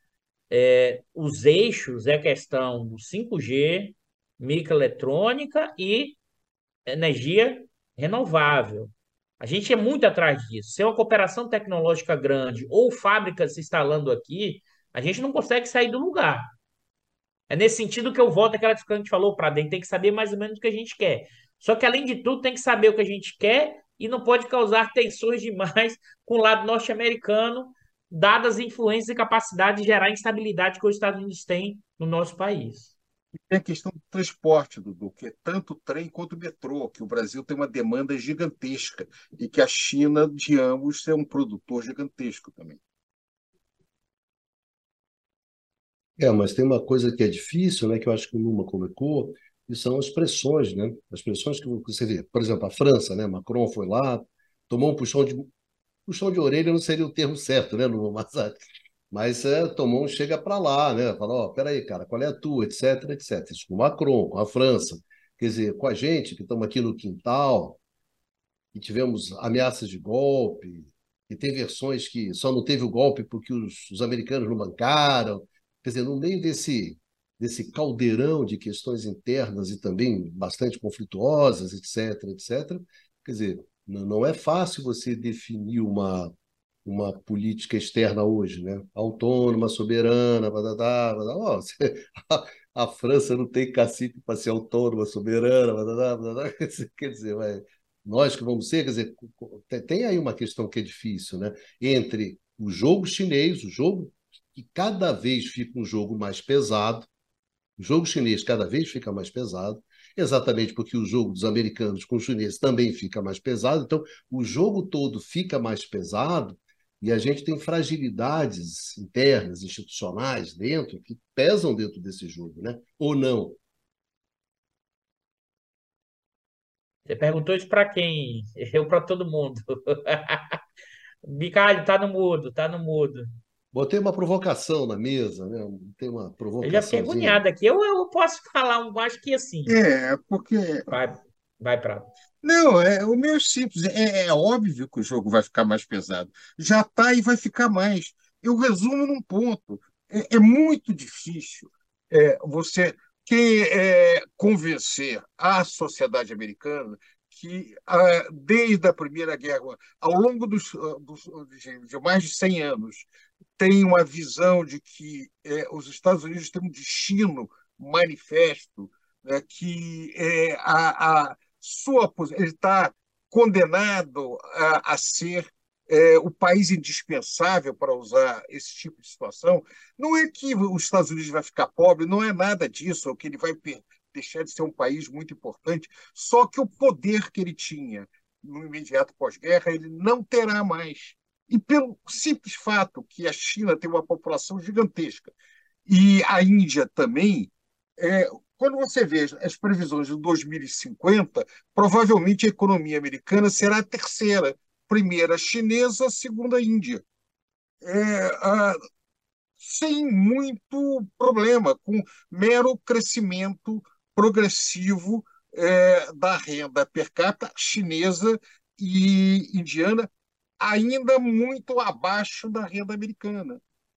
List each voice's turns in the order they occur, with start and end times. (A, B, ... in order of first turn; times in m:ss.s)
0:00.5-0:06.2 A
0:06.9-0:16.5 A
0:17.5-0:32.9 A
0:33.5-0:42.8 B
0:46.2-0:55.5 C
0:56.1-0:58.6 C
0:59.1-1:07.8 C
1:08.7-1:26.3 C
1:26.8-1:47.1 C
1:47.8-2:03.6 C
2:07.1-2:10.6 A
2:11.2-2:13.3 A
2:13.7-2:17.4 C
2:16.6-2:19.8 A
2:19.7-2:20.9 B
2:20.9-2:22.1 A
2:22.4-3:15.3 B
3:15.9-3:27.0 B
3:27.8-3:28.8 B
3:29.6-3:40.1 B
3:40.6-3:43.6 B